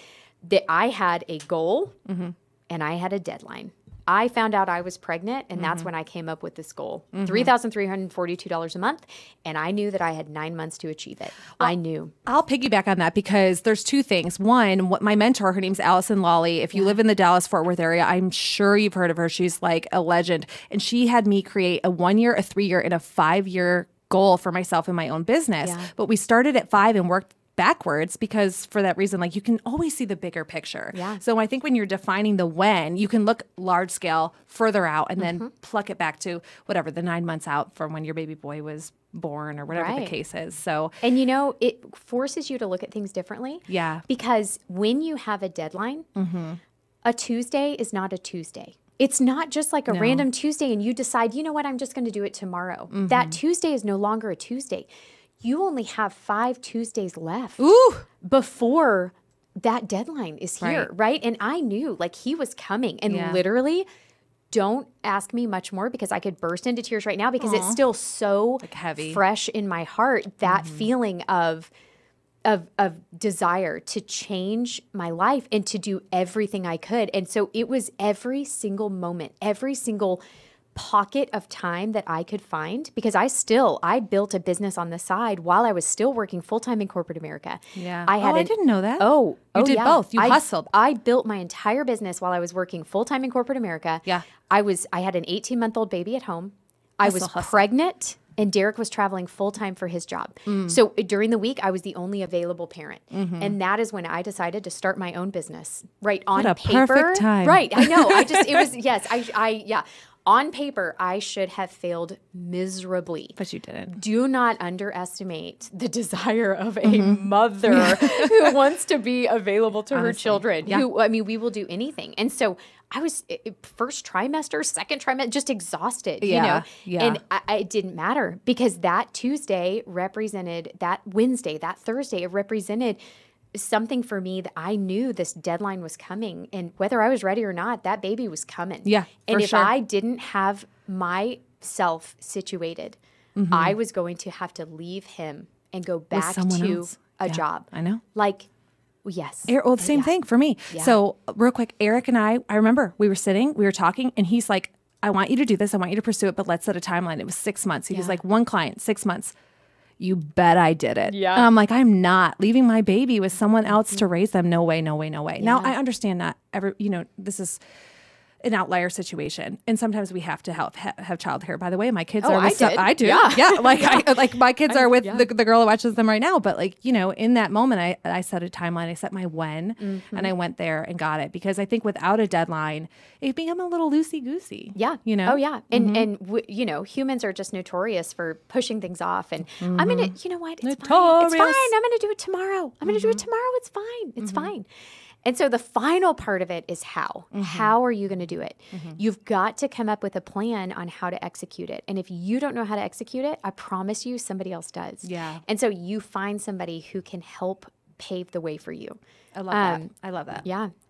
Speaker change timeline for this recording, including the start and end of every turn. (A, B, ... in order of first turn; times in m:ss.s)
0:00.4-0:02.0 A
0:02.1-0:02.3 B
0:02.7-0:12.1 A
0:05.6-0:05.9 B
0:07.1-0:07.5 B
0:12.2-0:41.0 B
0:25.6-0:25.9 A
0:30.9-0:31.2 A
0:35.2-0:35.5 A
0:39.7-0:40.1 A
0:41.0-0:46.1 A
0:43.7-0:44.0 B
0:46.2-0:46.6 B
0:47.0-0:54.9 A
0:49.9-0:50.2 B
0:52.9-0:53.4 B
0:55.4-1:03.9 A
0:57.6-0:58.0 B
1:00.6-1:00.9 B
1:03.1-1:03.4 B
1:04.5-1:11.7 A
1:07.4-1:07.8 B
1:08.6-1:09.2 B
1:10.4-1:10.9 B
1:12.4-1:20.2 A
1:20.7-2:13.0 A
1:27.8-1:30.7 B
1:37.0-1:37.7 B
1:40.5-1:40.8 B
1:43.1-1:43.6 B
1:46.3-1:48.7 B
1:53.4-1:54.0 B
1:56.8-1:58.5 B
1:59.9-2:00.8 B
2:06.2-2:07.2 B
2:13.5-2:23.0 A
2:18.8-2:19.7 B
2:23.4-2:23.7 B
2:23.5-2:28.5 A
2:26.1-2:28.0 B
2:29.0-2:30.1 A
2:29.5-2:39.3 B
2:30.7-2:31.0 A
2:37.9-2:38.2 A
2:40.0-2:47.6 B
2:41.1-2:41.5 A
2:45.4-2:45.7 A
2:48.4-3:06.0 B
2:52.2-2:55.3 A
2:59.8-3:00.3 A
3:04.7-3:14.7 A
3:09.6-3:11.7 B
3:12.8-3:13.2 B
3:14.2-3:14.5 B
3:15.2-3:29.0 A
3:17.3-3:17.7 B
3:18.7-3:19.0 B
3:25.0-3:25.4 B
3:29.3-3:30.4 B
3:29.5-3:29.9 A
3:30.4-3:30.7 A